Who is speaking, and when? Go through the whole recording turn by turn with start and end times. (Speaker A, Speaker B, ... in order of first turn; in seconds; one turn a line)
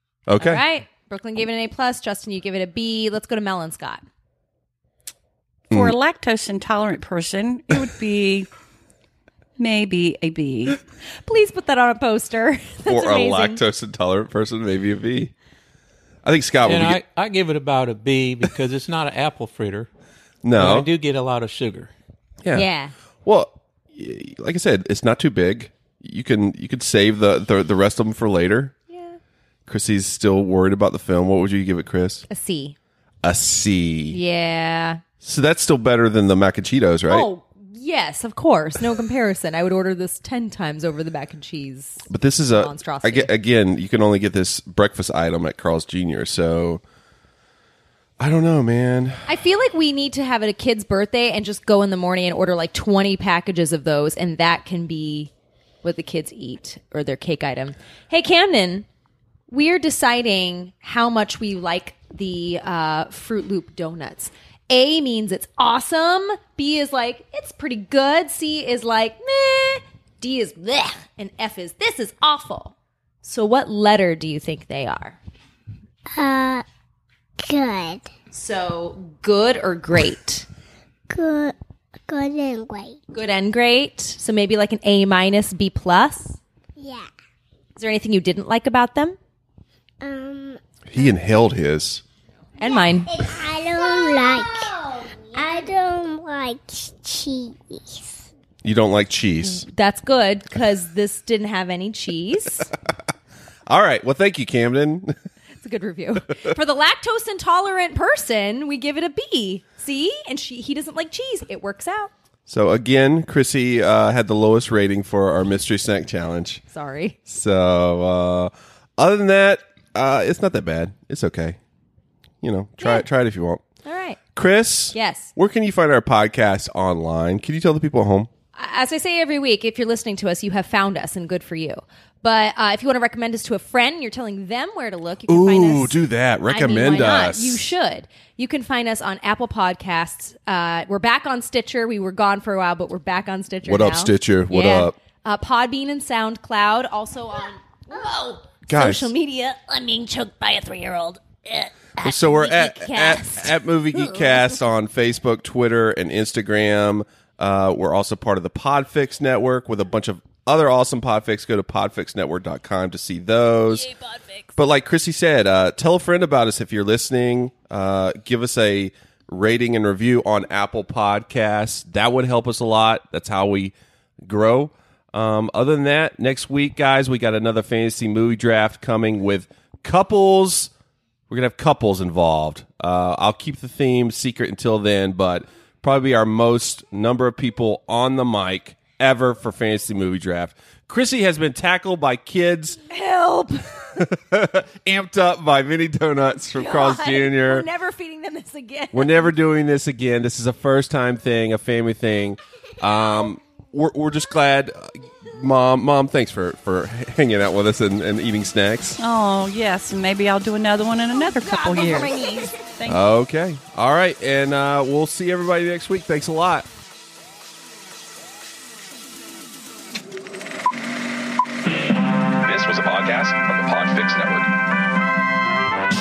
Speaker A: 0.3-0.7
Speaker B: 0.4-4.0
Speaker C: 5.7-8.5
Speaker C: 9.6-10.8
Speaker B: 11.2-13.6
Speaker A: 12.8-15.3
Speaker A: 16.2-17.0
Speaker D: 16.6-19.9
Speaker A: 20.4-20.9
Speaker D: 20.5-21.9
Speaker A: 22.4-22.7
Speaker B: 22.5-22.9
Speaker A: 23.2-28.7
Speaker B: 28.9-29.2
Speaker A: 29.7-32.2
Speaker B: 32.3-32.8
Speaker A: 33.2-34.2
Speaker B: 34.1-35.0
Speaker A: 35.2-37.3
Speaker B: 37.1-43.3
Speaker A: 42.1-46.8
Speaker A: 48.2-49.2
Speaker B: 49.3-55.3
Speaker B: 55.8-58.9
Speaker B: 59.5-75.2
Speaker E: 76.1-76.6
Speaker E: 77.4-78.1
Speaker B: 78.3-80.5
Speaker E: 81.1-81.5
Speaker E: 82.1-83.0
Speaker B: 83.1-86.4
Speaker E: 86.8-87.1
Speaker B: 87.8-89.2
Speaker E: 90.0-90.6
Speaker A: 90.9-92.0
Speaker B: 92.6-93.3
Speaker E: 92.6-98.3
Speaker A: 98.6-99.7
Speaker B: 99.4-102.7
Speaker A: 103.7-105.2
Speaker B: 105.6-112.1
Speaker A: 112.5-116.6
Speaker B: 116.7-117.2
Speaker A: 117.3-121.6
Speaker A: 122.4-123.6
Speaker B: 122.8-123.1
Speaker B: 123.8-124.2
Speaker A: 124.3-128.3
Speaker B: 124.9-125.3
Speaker B: 128.5-135.9
Speaker A: 135.3-137.6
Speaker B: 136.5-154.3
Speaker A: 143.6-145.0
Speaker A: 148.7-149.1
Speaker A: 152.0-163.9
Speaker B: 163.8-164.5
Speaker A: 164.6-180.7
Speaker A: 181.3-192.8
Speaker B: 192.9-194.0
Speaker A: 194.0-197.7
Speaker B: 196.5-199.3
Speaker A: 198.9-209.0
Speaker C: 209.0-213.0
Speaker B: 211.2-212.5
Speaker A: 212.8-216.7
Speaker F: 222.4-224.5